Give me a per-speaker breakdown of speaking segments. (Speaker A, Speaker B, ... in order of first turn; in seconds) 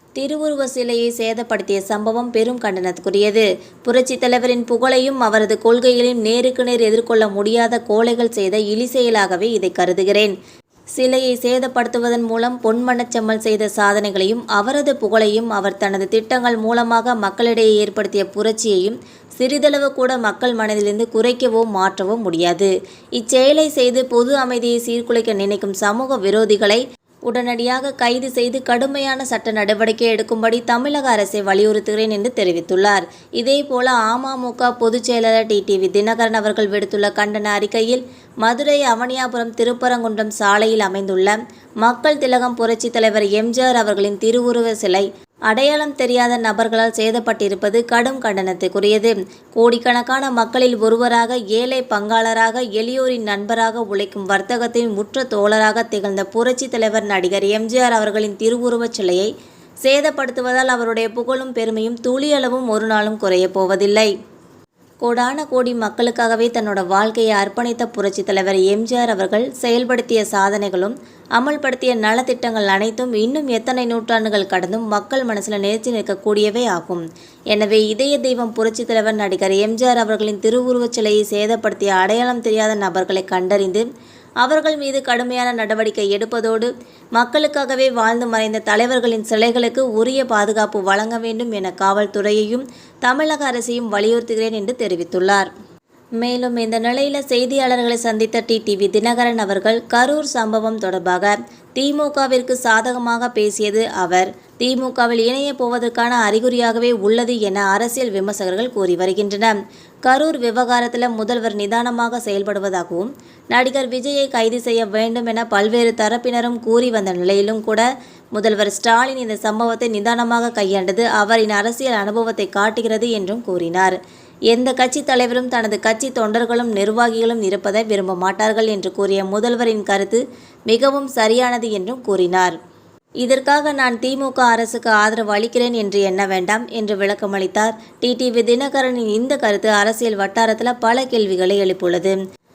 Speaker A: 0.2-10.3, 10.9-59.3, 59.9-64.1, 65.0-83.9, 84.4-95.5, 96.2-124.0, 124.5-132.6, 133.2-142.2